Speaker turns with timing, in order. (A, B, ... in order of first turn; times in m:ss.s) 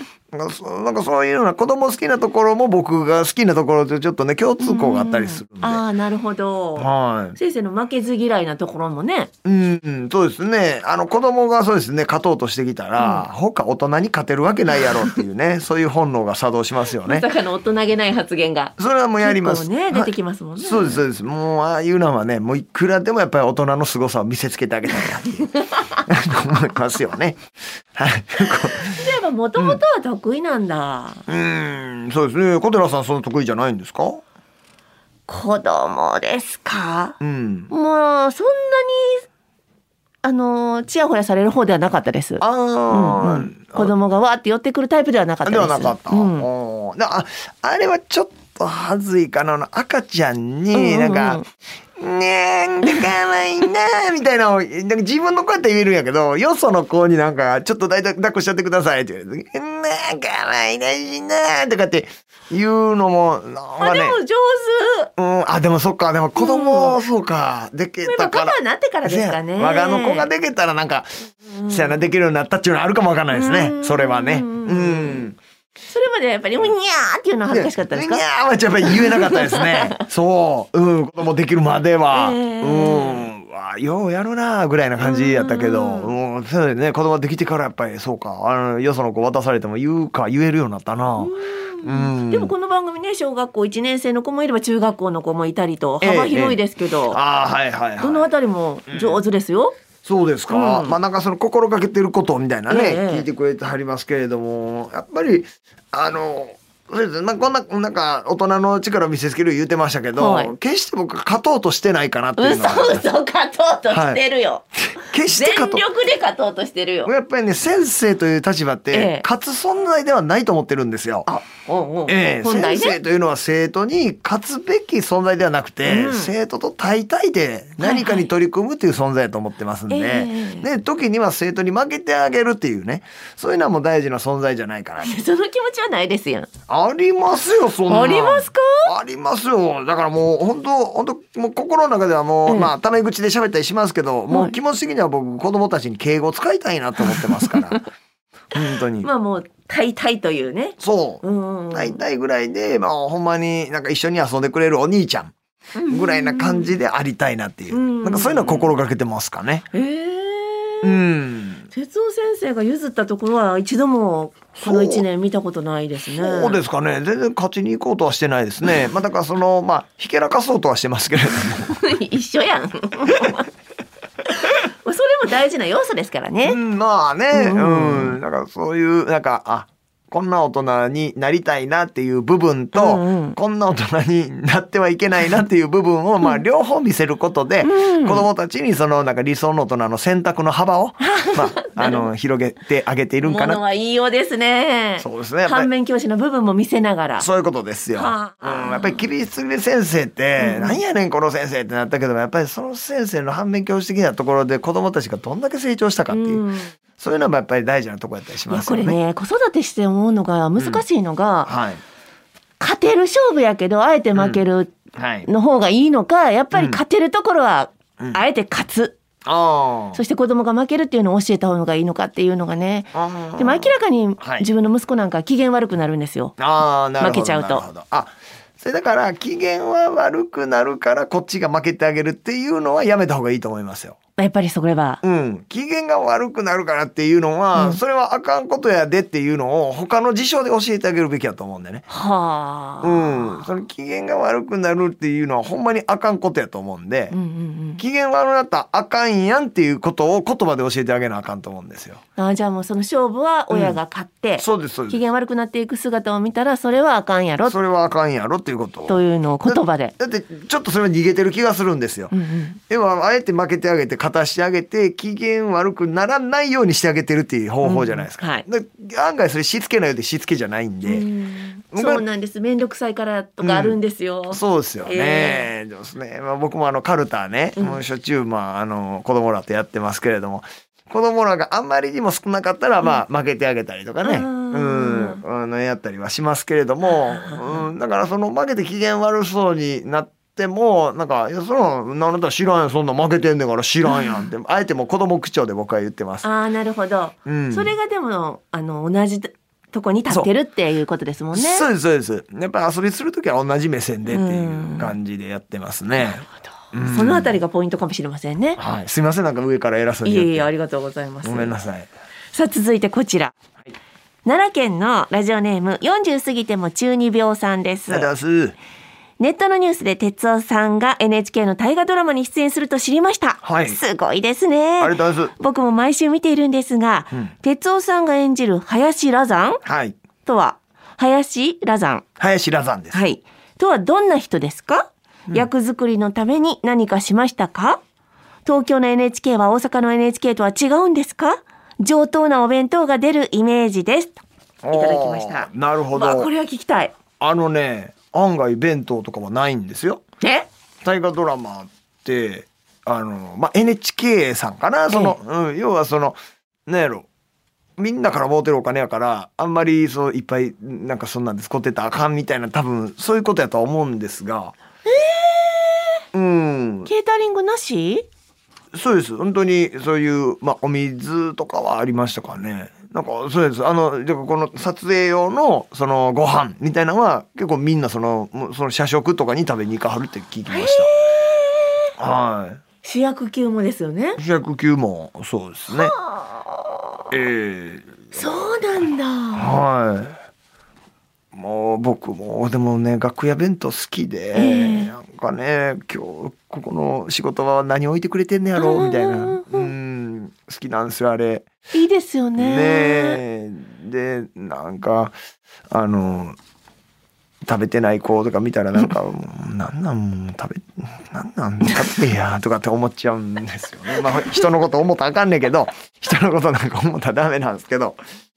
0:00.3-0:05.8 A
0:04.6-0:09.3 B
0:06.8-0:07.4 A
0:09.4-0:17.3 A
0:13.0-0:13.2 B
0:17.0-0:21.0 B
0:18.8-0:25.5 A
0:25.5-0:26.0 B
0:26.0-0:27.4 A
0:27.9-0:29.8 A
0:28.8-0:31.2 B
0:31.3-0:34.2 A
0:35.3-0:37.2 B
0:37.2-0:37.7 A
0:37.7-0:39.2 B
0:40.2-0:46.5 B
0:42.4-0:43.9 A
0:45.4-0:51.4 A
0:50.7-0:51.4 B
0:52.0-1:04.2 A
1:03.8-1:05.1 B
1:05.2-1:15.4 A
1:06.4-1:07.0 B
1:08.0-1:10.3 B
1:11.6-1:11.9 B
1:13.3-1:15.3 B
1:15.9-1:18.2 B
1:17.5-1:32.5 A
1:18.8-1:20.0 B
1:22.1-1:23.3 B
1:25.0-1:26.1 B
1:31.2-1:37.2 B
1:36.0-1:38.3 A
1:38.0-1:39.8 B
1:38.9-1:39.2 A
1:40.0-1:53.1 A
1:40.5-1:41.0 B
1:42.7-1:43.3 B
1:50.2-1:50.5 B
1:52.4-1:54.6 B
1:53.9-1:54.2 A
1:54.8-1:55.8 A
1:55.3-1:57.1 B
1:57.0-2:01.3 A
1:58.9-1:59.2 B
2:01.2-2:03.0 B
2:02.1-2:15.2 A
2:05.8-2:06.3 B
2:07.8-2:08.3 B
2:09.9-2:10.7 B
2:15.0-2:16.5 B
2:16.7-2:27.8 A
2:17.9-2:18.9 B
2:24.3-2:24.5 B
2:27.0-2:27.6 B
2:28.5-2:29.1 A
2:29.0-2:32.0 B
2:30.8-2:35.3 A
2:35.8-2:36.7 B
2:35.9-2:39.6 A
2:37.7-2:38.7 B
2:39.7-2:41.0 B
2:40.8-2:41.7 A
2:41.7-2:46.6 B
2:44.6-2:45.0 A
2:46.2-2:51.8 A
2:51.7-2:53.5 B
2:54.3-2:56.6 B
2:56.4-3:13.6 A
2:57.3-2:58.2 B
3:02.7-3:03.4 B
3:07.6-3:08.2 B
3:11.0-3:12.0 B
3:13.2-3:17.2 B
3:15.0-3:15.7 A
3:17.2-3:26.4 A
3:17.9-3:19.0 B
3:20.4-3:20.8 B
3:26.1-3:26.7 B
3:27.0-3:29.0 A
3:28.5-3:31.5 B
3:30.6-3:30.8 A
3:31.4-3:31.8 A
3:32.6-3:39.0 B
3:34.2-3:34.4 A
3:34.9-3:35.3 A
3:36.5-3:36.8 A
3:39.2-3:40.0 A
3:39.9-3:46.4 B
3:42.9-3:44.4 A
3:46.4-3:54.0 A
3:47.0-3:47.6 B
3:54.2-3:55.0 B
3:55.0-4:01.8 A
3:57.5-3:57.8 B
4:01.9-4:03.4 B
4:02.8-4:07.1 A
4:07.1-4:07.8 B
4:07.8-4:12.0 A
4:12.2-4:17.5 B
4:13.5-4:13.8 A
4:14.4-4:15.0 A
4:17.5-4:22.1 A
4:18.9-4:19.9 B
4:22.1-4:22.6 B
4:22.7-4:31.0 A
4:27.6-4:28.4 B
4:30.8-4:35.5 B
4:31.7-4:32.0 A
4:33.4-4:33.8 A
4:34.3-4:56.3 A
4:44.0-4:45.2 B
4:46.8-4:47.7 B
4:53.9-4:54.2 B
4:56.2-5:01.6 B
4:57.2-4:57.7 A
5:01.3-5:07.4 A
5:04.1-5:04.9 B
5:06.8-5:08.6 B
5:08.6-5:10.5 A
5:10.0-5:11.6 B
5:11.2-5:11.9 A
5:12.3-5:13.3 B
5:14.2-5:18.1 B
5:17.9-5:18.5 A
5:19.2-5:29.6 B
5:23.4-5:23.8 A
5:24.8-5:25.3 A
5:29.6-5:30.0 A
5:30.2-5:32.0 B
5:32.2-5:33.0 A
5:32.9-5:37.8 B
5:38.4-5:46.9 B
5:44.6-5:46.3 A
5:47.2-5:50.0 A
5:50.2-5:50.5 B
5:50.8-5:57.1 A
5:54.9-5:55.2 B
5:57.8-6:04.5 A
6:04.9-6:06.0 B
6:06.1-6:06.9 A
6:06.8-6:08.1 B
6:08.7-6:20.9 A
6:20.5-6:21.9 B
6:22.0-6:22.6 A
6:22.8-6:24.2 B
6:24.2-6:25.9 A
6:25.7-6:27.1 B
6:27.1-6:28.3 A
6:28.1-6:29.5 B
6:29.3-6:30.2 A
6:31.3-6:41.5 A
6:34.3-6:34.9 B
6:38.6-6:39.7 B
6:41.7-6:43.2 B
6:42.4-6:45.2 A
6:45.7-6:46.4 A
6:47.4-6:58.0 A
6:54.0-6:54.4 B